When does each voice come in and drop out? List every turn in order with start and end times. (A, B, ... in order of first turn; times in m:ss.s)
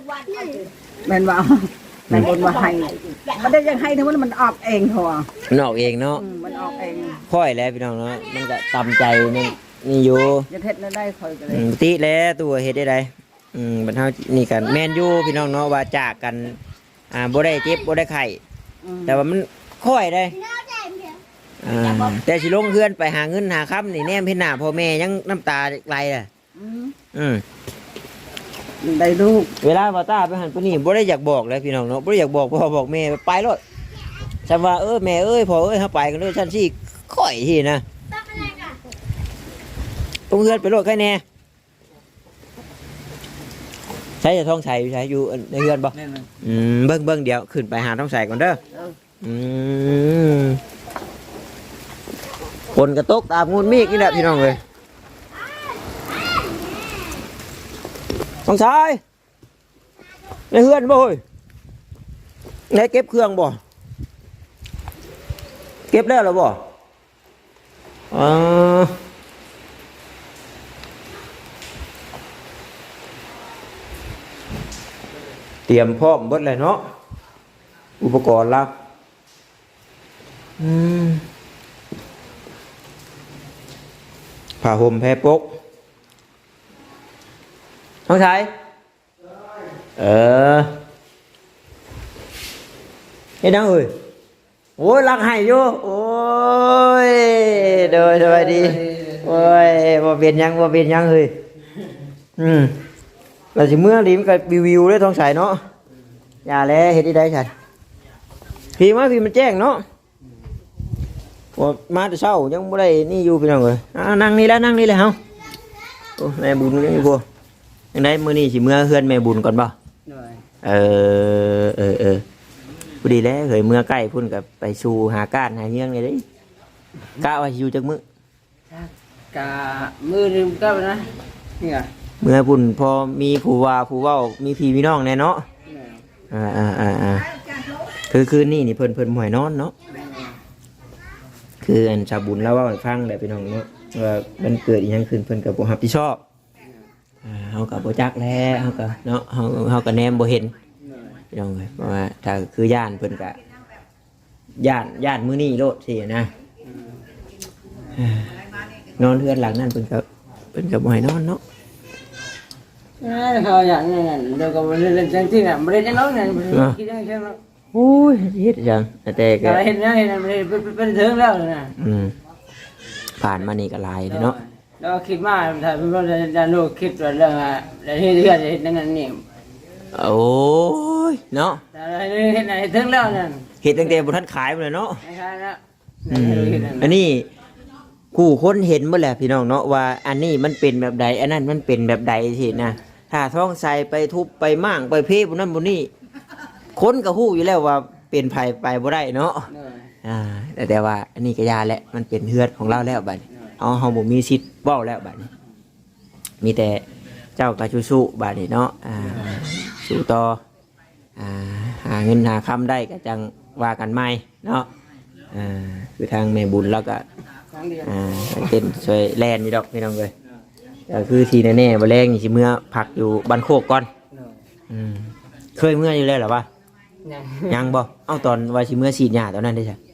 0:00.2-0:05.3 A
0:05.5-0:06.2 B
0:06.2-0:07.2 A
0:07.3-0:10.5 B
0:10.5-0:11.7 A
0:11.5-0:16.6 B
0:17.1-0:18.4 B
0:18.8-0:19.2 A
0:19.1-0:20.4 B
0:21.6-0:26.3 B
0:26.6-0:27.0 A
0:27.1-0:27.4 B
0:28.8-0:29.5 A
0:29.6-0:33.6 B
0:34.5-0:37.8 B
0:40.3-0:41.2 B
0:44.2-0:48.6 B
0:49.2-0:50.6 B
0:52.7-0:54.6 B
0:58.5-0:59.0 B
1:00.5-1:01.2 B
1:02.7-1:03.6 B
1:05.9-1:06.6 B
1:08.1-1:09.0 B
1:15.7-1:16.8 B
1:18.0-1:18.7 B
1:20.6-1:21.2 B
1:24.6-1:25.5 B
1:28.1-1:28.5 B
1:30.0-1:30.7 B
1:33.4-1:33.9 B
1:34.8-1:41.3 B
1:37.5-1:39.7 C
1:42.4-1:42.8 B
1:43.6-1:45.6 B
1:46.5-1:47.5 B
1:48.8-1:49.8 B
1:51.6-1:55.2 B
1:56.2-1:57.2 B
1:57.9-1:59.7 B
2:00.1-2:00.4 C
2:00.6-2:02.2 B
2:03.0-2:06.2 B
2:07.2-2:08.0 B
2:08.7-2:11.9 C
2:12.2-2:15.5 B
2:15.7-2:16.0 C
2:16.3-2:17.3 B
2:18.1-2:19.7 B
2:19.9-2:20.4 C
2:21.6-2:26.2 B
2:27.2-2:30.5 B
2:30.8-2:31.1 C
2:31.3-2:33.4 B
2:34.6-2:36.3 B
2:36.6-2:37.0 C
2:38.0-2:38.4 B
2:39.0-2:41.4 B
2:43.0-2:47.4 C
2:46.5-2:46.8 B
2:47.7-2:49.6 B
2:49.4-2:51.8 C
2:51.8-2:52.1 B
2:53.2-2:54.4 B
2:54.1-2:59.2 C
2:59.9-3:01.6 B
3:01.7-3:04.1 C
3:03.6-3:05.0 B
3:05.0-3:07.0 C
3:06.1-3:07.3 B
3:08.1-3:15.9 B
3:16.8-3:19.5 B
3:19.5-3:19.9 C
3:20.0-3:25.3 B
3:26.4-3:26.8 B
3:27.4-3:30.4 B
3:29.0-3:29.4 C
3:31.2-3:34.7 B
3:35.3-3:37.0 B
3:37.5-3:38.0 C
3:37.8-3:40.1 B
3:40.9-3:43.9 B
3:44.1-3:44.4 C
3:44.7-3:46.5 B
3:47.0-3:47.7 C
3:47.5-3:49.8 B